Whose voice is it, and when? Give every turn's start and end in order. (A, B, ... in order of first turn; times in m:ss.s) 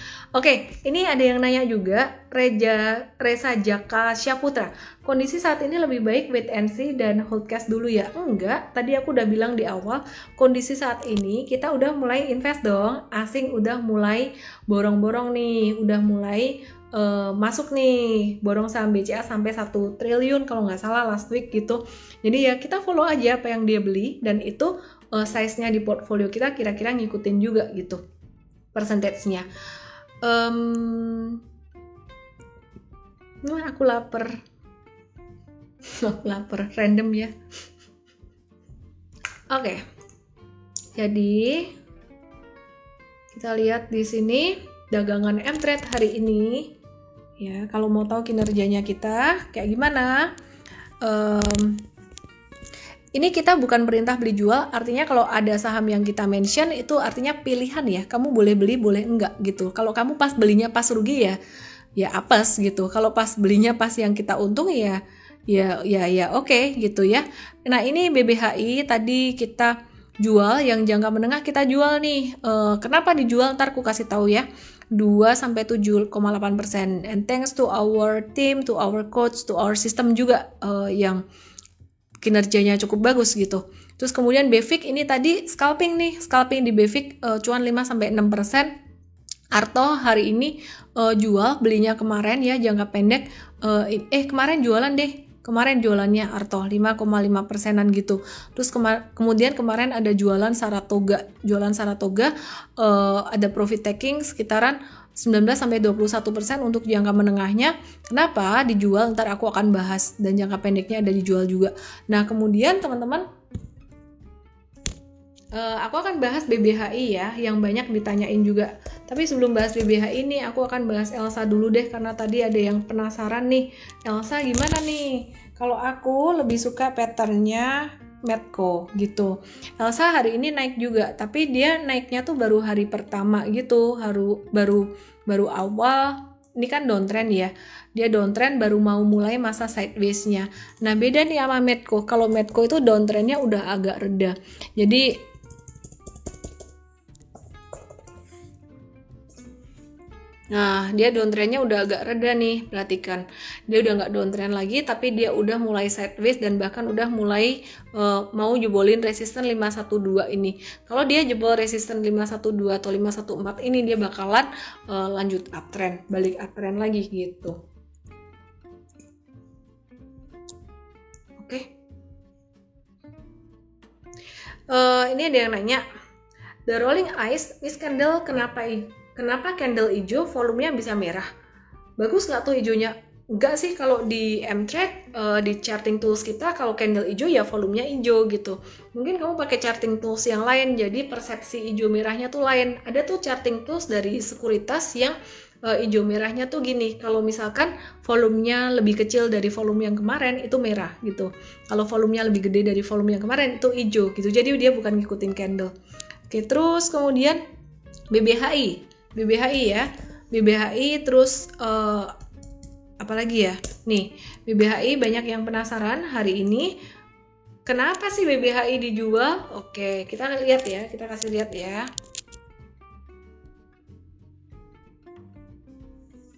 0:00.3-0:28.0 A
0:28.7-0:29.4 A
0:30.2-0:31.4 A
0:33.4-0:34.4 A
0:36.0-0:37.3 A
0:39.5-0:39.8 A
0:40.9-0:41.7 A
0:43.3-0:46.7 A
0:47.4-0:50.3 A
0:51.0-0:51.8 A
0:53.1-1:01.4 A
1:02.0-1:21.2 A
1:22.2-1:28.7 A
1:29.5-1:53.3 A
1:55.5-2:25.2 A
2:30.5-2:47.6 A
2:51.4-2:51.7 A
2:54.7-2:55.8 A
2:56.7-3:01.3 A
3:02.0-3:25.7 A
3:26.3-3:27.4 A
3:28.1-3:32.1 A
3:33.0-3:36.7 A
3:37.6-3:41.9 A